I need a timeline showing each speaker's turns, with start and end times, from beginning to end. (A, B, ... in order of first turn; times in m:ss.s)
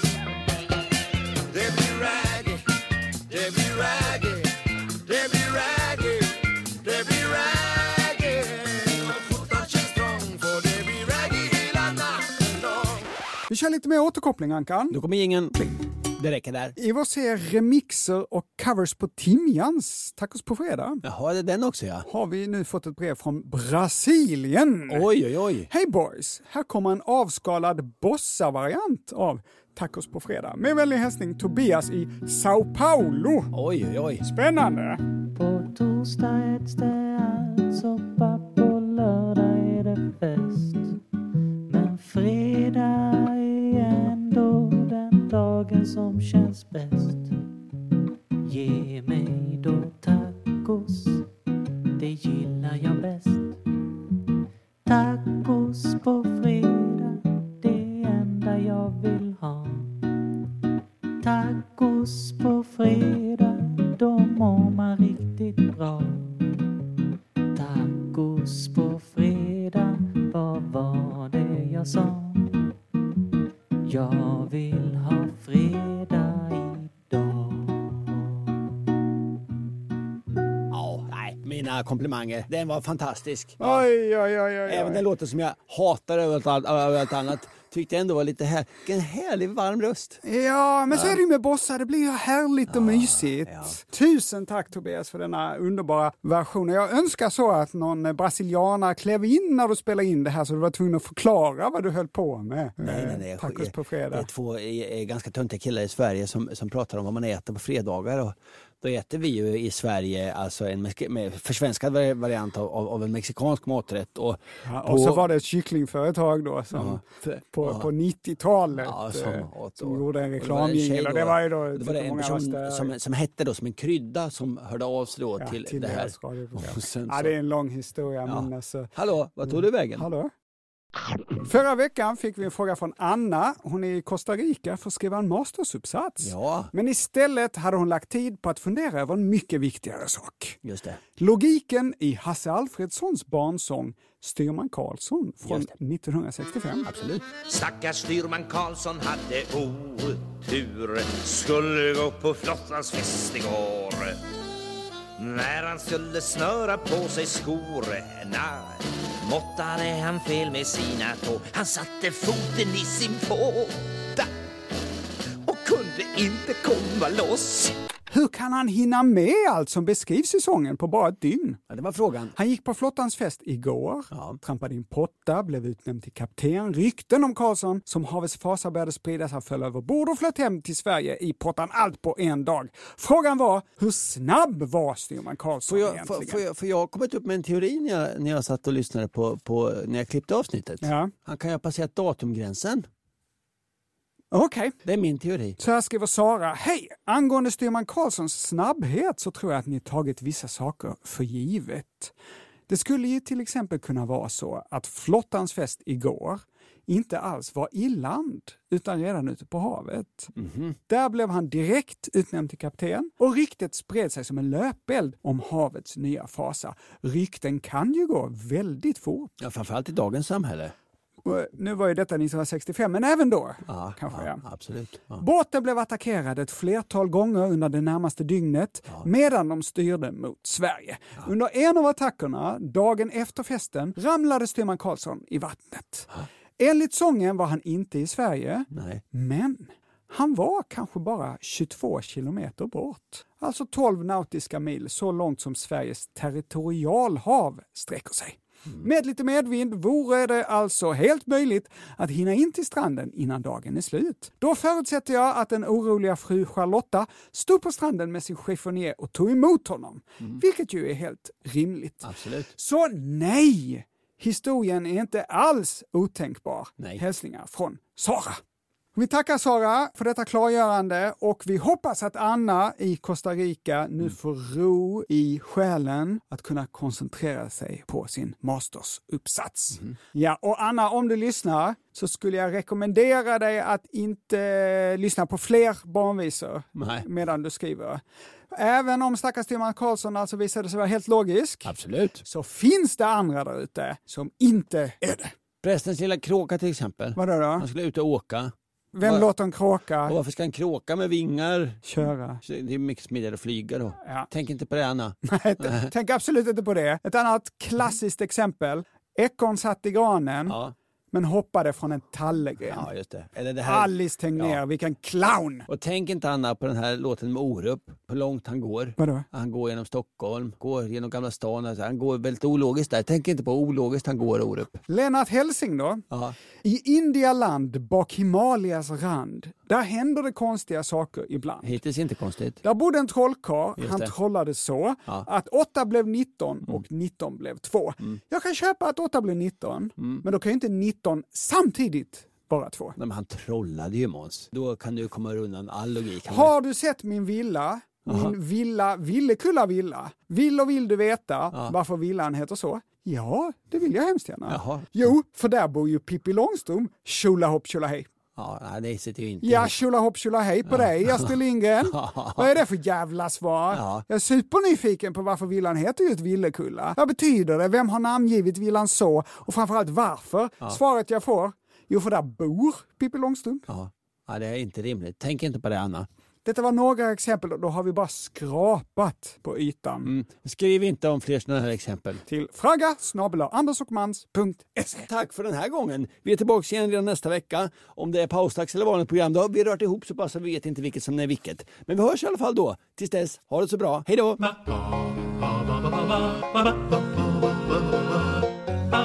0:01.5-0:02.6 A
0:03.3-0:04.4 A
0:05.1-0:12.5 A
0:13.5-0:15.0 B
0:14.9-0:15.6 C
0:16.2-0:16.8 C
0:16.8-0:21.0 B
0:21.0-0:22.1 C
0:22.0-0:25.1 B
0:24.9-0:25.7 C
0:25.7-0:33.5 B
0:33.5-0:34.2 C
0:34.2-0:35.0 B
0:35.3-0:41.0 D
0:41.7-0:47.3 D
0:48.4-0:51.3 D
0:52.0-0:53.6 D
0:54.8-1:00.0 D
1:01.2-1:06.5 D
1:07.5-1:12.7 D
1:13.8-1:18.2 D
1:20.7-1:23.9 C
1:23.6-1:25.0 B
1:24.6-1:30.2 C
1:30.2-1:44.3 B
1:30.9-1:31.2 C
1:32.7-1:33.8 C
1:42.8-1:55.2 C
1:54.6-1:57.0 B
1:56.7-1:57.9 C
1:57.5-2:02.9 B
1:58.8-2:07.3 C
2:05.4-2:08.9 B
2:08.2-2:10.0 C
2:09.5-2:10.3 B
2:11.4-2:20.6 B
2:16.2-2:16.7 C
2:20.6-2:21.0 C
2:21.2-2:26.9 B
2:25.4-2:25.7 C
2:26.8-2:27.3 C
2:27.4-2:34.2 A
2:35.2-2:44.3 A
2:45.4-2:47.7 A
2:48.1-2:51.6 B
2:51.7-2:52.4 C
2:52.4-3:06.4 B
2:54.1-2:54.4 C
3:05.7-3:12.9 C
3:10.8-3:11.1 B
3:14.3-3:14.8 B
3:14.8-3:15.6 C
3:15.6-3:22.1 B
3:22.7-3:30.3 B
3:30.4-3:30.8 C
3:30.9-3:39.3 B
3:39.4-3:40.7 C
3:41.2-3:44.4 B
3:43.7-3:45.2 C
3:45.2-4:28.4 B
3:58.7-3:59.0 C
4:22.0-4:22.5 C
4:28.9-4:48.0 B
4:46.8-4:47.0 C
4:48.5-4:55.3 B
4:51.6-4:52.2 C
4:55.6-4:59.3 C
4:57.2-4:57.7 B
4:58.9-5:00.1 B
5:00.0-5:05.9 C
5:01.8-5:02.4 B
5:05.2-5:10.6 B
5:10.5-5:10.7 C
5:11.1-5:12.9 B
5:12.7-5:14.6 C
5:13.6-5:15.7 B
5:15.7-5:24.8 C
5:19.0-5:19.2 B
5:24.9-5:26.0 B
5:26.6-5:31.7 B
5:31.6-5:32.6 C
5:32.6-5:43.0 B
5:33.8-5:34.1 C
5:40.0-5:40.2 C
5:43.0-5:46.5 C
5:46.3-5:58.1 B
5:48.0-5:48.3 C
5:54.5-5:55.0 C
5:58.4-5:59.7 C
5:59.4-6:13.7 B
6:00.7-6:01.3 C
6:01.9-6:02.5 C
6:03.7-6:04.0 C
6:13.7-6:16.1 C
6:16.4-6:20.1 B
6:20.0-6:22.2 C
6:22.3-6:25.1 B
6:25.0-6:34.5 C